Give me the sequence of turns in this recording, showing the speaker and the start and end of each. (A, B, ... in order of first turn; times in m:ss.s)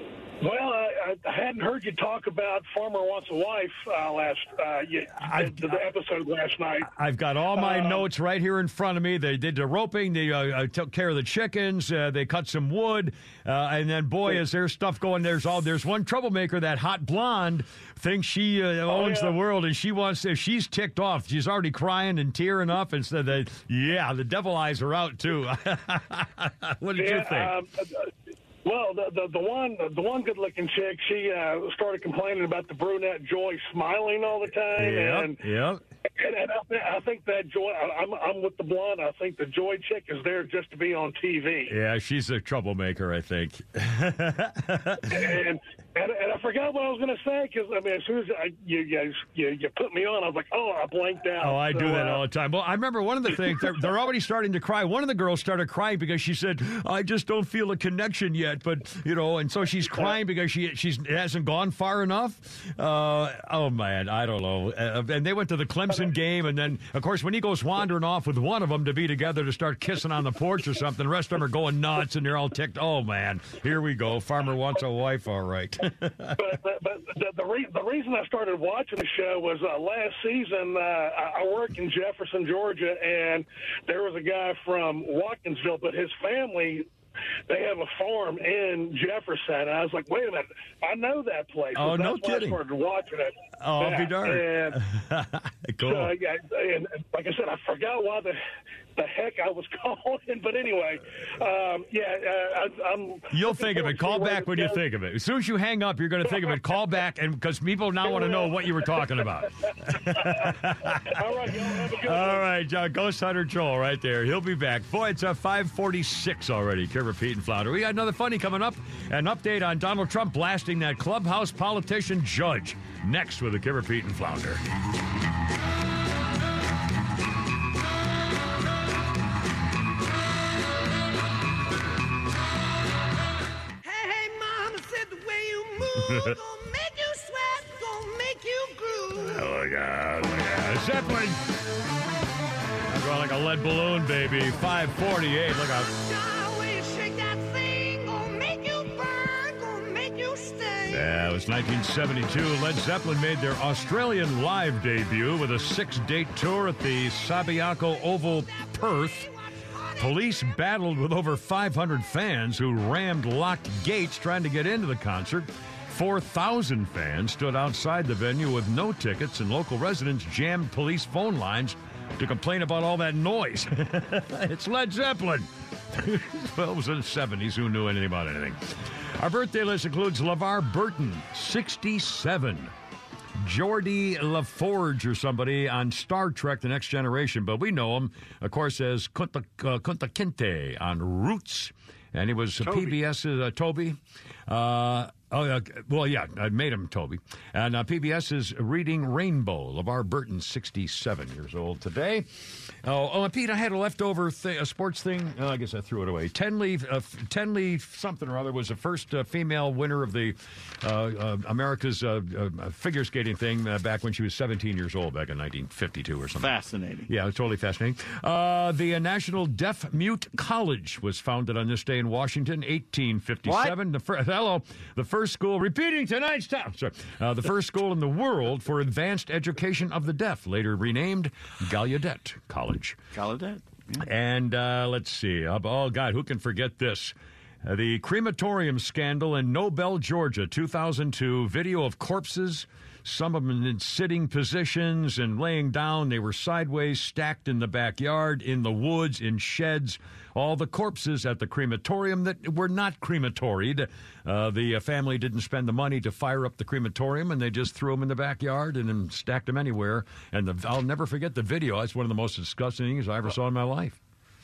0:00.4-0:06.9 A
0:05.2-0:05.8 B
0:06.8-0:27.6 B
0:07.5-0:08.0 A
0:18.9-0:19.4 A
0:27.0-0:28.0 A
0:28.6-0:35.4 A
0:34.7-0:35.8 B
0:36.2-0:41.7 A
0:41.7-0:45.3 B
0:45.1-0:52.2 A
0:51.4-1:16.4 B
1:16.4-1:26.9 A
1:27.5-1:34.8 A
1:31.7-1:32.6 B
1:33.6-1:36.1 B
1:35.8-1:38.4 A
1:39.0-1:44.8 A
1:43.3-1:51.3 B
1:48.0-1:49.0 A
1:49.9-1:52.5 A
1:51.9-2:04.6 B
2:15.9-2:16.4 B
2:17.5-2:18.0 C
2:18.7-2:19.1 C
2:19.2-2:21.5 B
2:22.9-2:25.9 B
2:26.6-2:26.9 C
2:27.6-2:28.3 C
2:29.1-2:29.8 C
2:30.9-2:39.3 B
2:40.0-3:02.7 B
3:03.4-3:22.3 B
3:12.6-3:13.0 D
3:22.8-3:36.5 B
3:36.4-3:37.1 D
3:37.1-3:53.0 B
3:43.4-3:43.7 D
3:53.1-3:54.0 D
3:54.0-4:24.0 B